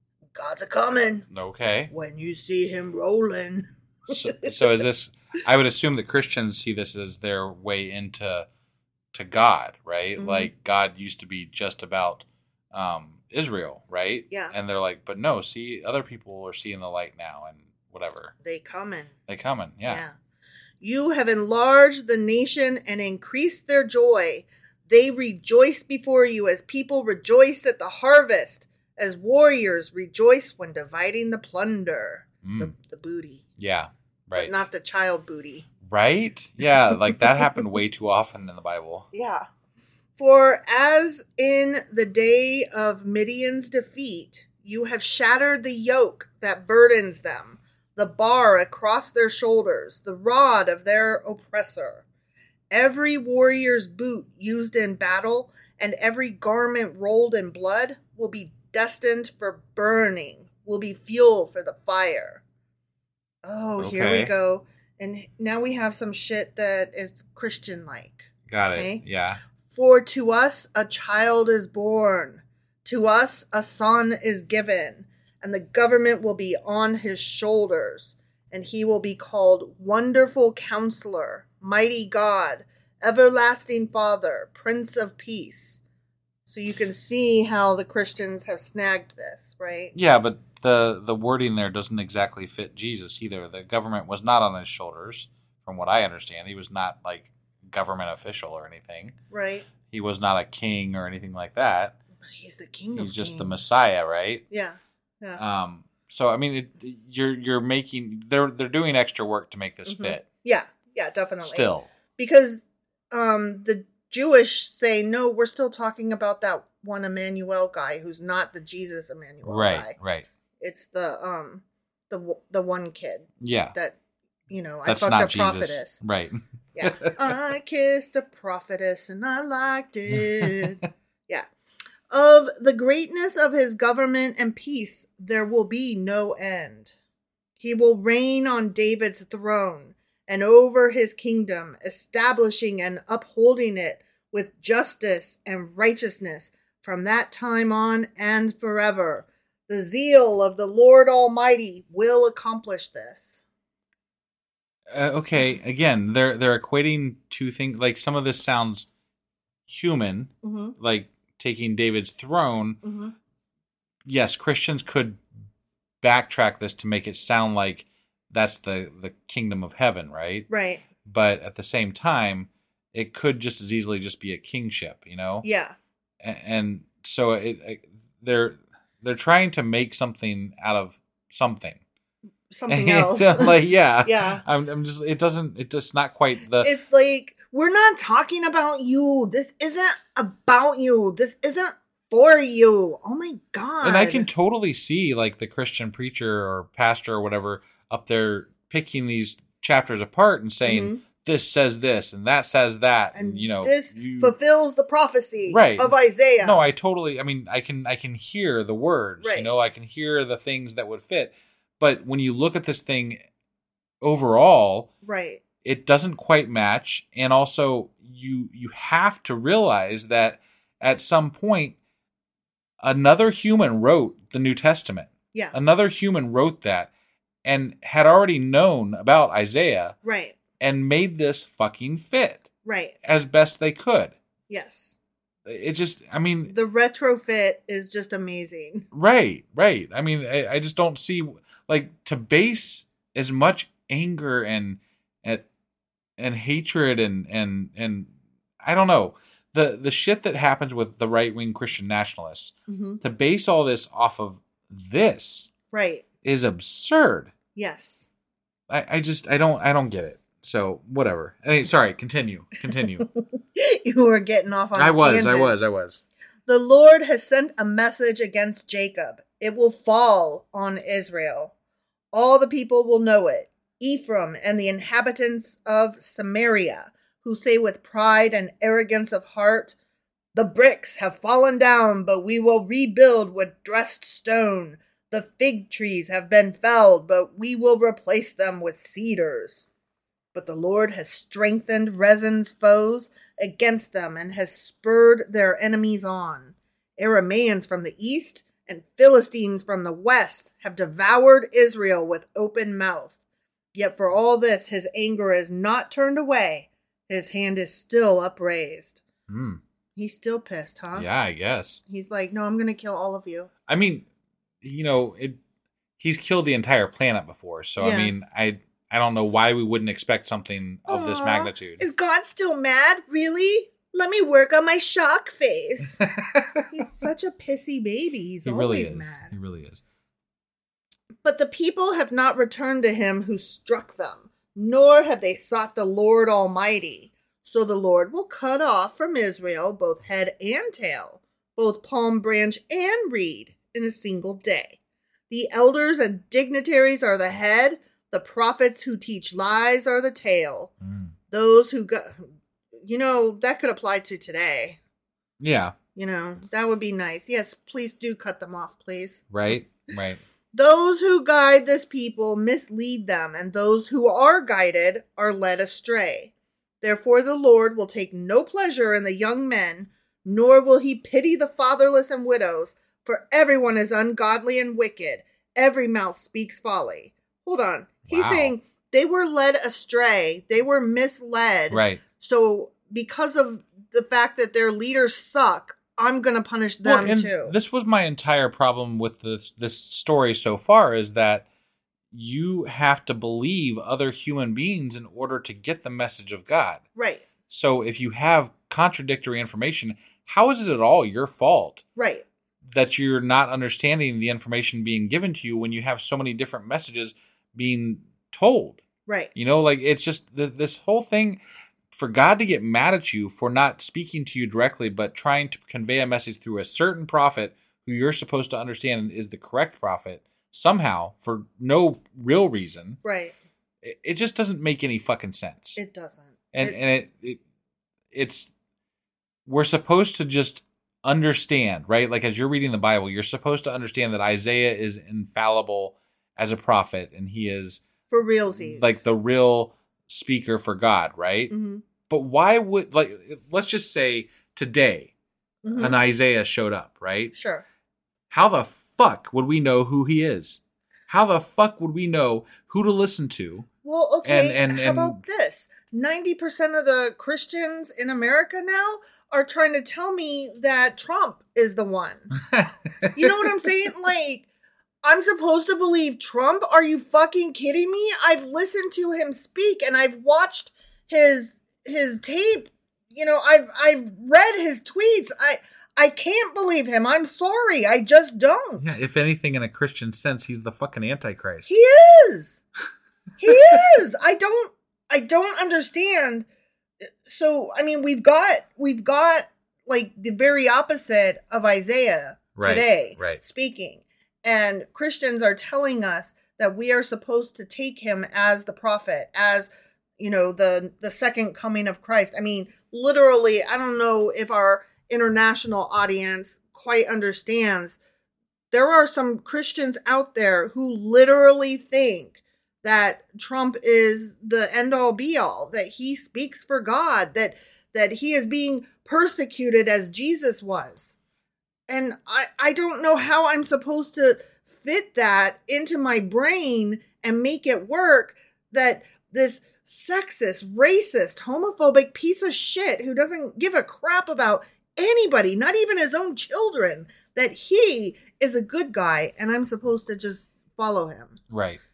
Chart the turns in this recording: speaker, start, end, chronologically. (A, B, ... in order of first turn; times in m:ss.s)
0:00.3-0:01.3 A
0:01.3-0:01.9 B
0:01.9-0:04.5 A
0:04.1-0:08.5 B
0:09.1-0:18.3 B
0:10.2-0:10.5 A
0:18.4-0:19.1 A
0:19.3-0:20.0 B
0:19.8-0:20.1 A
0:20.8-0:33.4 A
0:32.4-0:32.7 B
0:33.6-0:34.6 B
0:34.4-0:35.6 A
0:35.8-0:39.1 B
0:39.1-0:39.5 A
0:40.2-0:52.0 A
0:52.7-1:02.4 A
1:03.4-1:09.0 A
1:03.8-1:04.3 B
1:08.5-1:09.4 B
1:09.7-1:25.8 A
1:26.5-1:29.9 A
1:29.9-1:39.2 B
1:39.3-1:39.7 A
1:39.9-1:42.0 B
1:42.3-1:43.5 A
1:43.0-1:44.4 B
1:44.5-1:45.4 A
1:45.4-1:50.3 B
1:49.9-2:00.0 A
1:51.4-1:51.9 B
1:59.4-2:00.3 B
2:00.6-2:04.0 A
2:03.4-2:03.8 B
2:04.5-2:06.0 A
2:04.9-2:07.4 B
2:06.8-2:11.5 A
2:10.4-2:10.8 B
2:12.1-2:16.9 A
2:17.6-2:33.4 A
2:34.9-2:38.9 B
2:39.7-2:42.8 B
2:40.4-2:40.8 A
2:42.8-2:43.1 A
2:44.1-2:45.2 B
2:46.0-2:50.5 B
2:50.5-2:50.8 A
2:51.0-2:55.5 B
2:55.4-2:55.8 A
2:56.2-3:01.8 B
3:02.5-3:04.4 A
3:02.7-3:06.7 B
3:06.6-3:14.3 A
3:13.8-3:24.3 B
3:20.6-3:21.0 A
3:23.2-3:26.6 A
3:25.5-3:33.2 B
3:29.2-3:29.5 A
3:34.0-3:34.9 B
3:35.0-3:35.4 A
3:35.6-3:41.8 B
3:42.8-3:46.9 B
3:47.4-3:50.0 B
3:50.0-3:50.4 A
3:50.6-3:52.5 B
3:52.6-3:53.0 A
3:53.0-3:54.2 B
3:54.5-3:55.0 A
3:55.5-3:56.5 B
3:56.5-3:58.9 A
3:58.9-4:05.5 B
4:06.2-4:08.1 B
4:08.6-4:15.5 B
4:12.7-4:13.0 A
4:15.7-4:16.0 A
4:16.2-4:17.3 B
4:17.6-4:18.1 A
4:18.7-4:23.1 B
4:22.7-4:25.5 A
4:24.8-4:26.0 B
4:26.5-4:31.5 A
4:32.1-4:39.8 A
4:40.3-4:49.7 A
4:50.3-5:03.1 A
5:03.7-5:09.0 A
5:09.3-5:09.6 B
5:10.0-5:11.1 A
5:10.9-5:11.8 B
5:11.9-5:13.5 A
5:13.7-5:14.0 B
5:14.6-5:15.4 B
5:16.0-5:21.8 B
5:17.8-5:18.1 A
5:20.9-5:26.0 A
5:26.0-5:26.7 B
5:26.7-5:29.3 A
5:28.4-5:29.8 B
5:31.2-5:44.8 A
5:45.3-5:50.7 A
5:50.8-5:51.1 B
5:51.3-5:52.3 A
5:52.8-5:54.8 A
5:55.4-5:55.8 B
5:56.0-5:59.3 A
5:59.3-6:00.2 B
6:00.5-6:06.3 A
6:06.8-6:27.5 A
6:18.1-6:18.5 B
6:21.7-6:22.0 B
6:26.8-6:31.5 B
6:32.1-6:36.8 B
6:37.0-6:37.2 A
6:37.5-6:41.8 B
6:42.0-6:42.2 A
6:42.7-6:48.8 B
6:49.4-6:51.4 B
6:51.9-7:03.0 B
7:03.0-7:03.3 A
7:03.8-7:05.8 B
7:05.8-7:06.8 A
7:06.5-7:07.4 B
7:08.1-7:08.5 B
7:09.5-7:17.8 B
7:18.1-7:19.0 A
7:18.6-7:21.5 B
7:21.5-7:21.8 A
7:22.1-7:25.1 B
7:25.6-7:26.0 A
7:25.8-7:27.3 B
7:27.3-7:27.6 A
7:28.3-7:33.7 B
7:33.8-7:42.3 A
7:34.2-7:35.2 B
7:42.4-7:43.5 B
7:43.2-7:44.5 A
7:45.0-7:59.0 A
7:58.8-8:01.7 B
8:01.7-8:02.6 A
8:03.4-8:06.5 A
8:03.5-8:03.8 B
8:07.2-8:28.0 A
8:12.6-8:13.4 B
8:28.7-8:41.2 A
8:41.9-9:01.4 A
9:01.5-9:01.8 B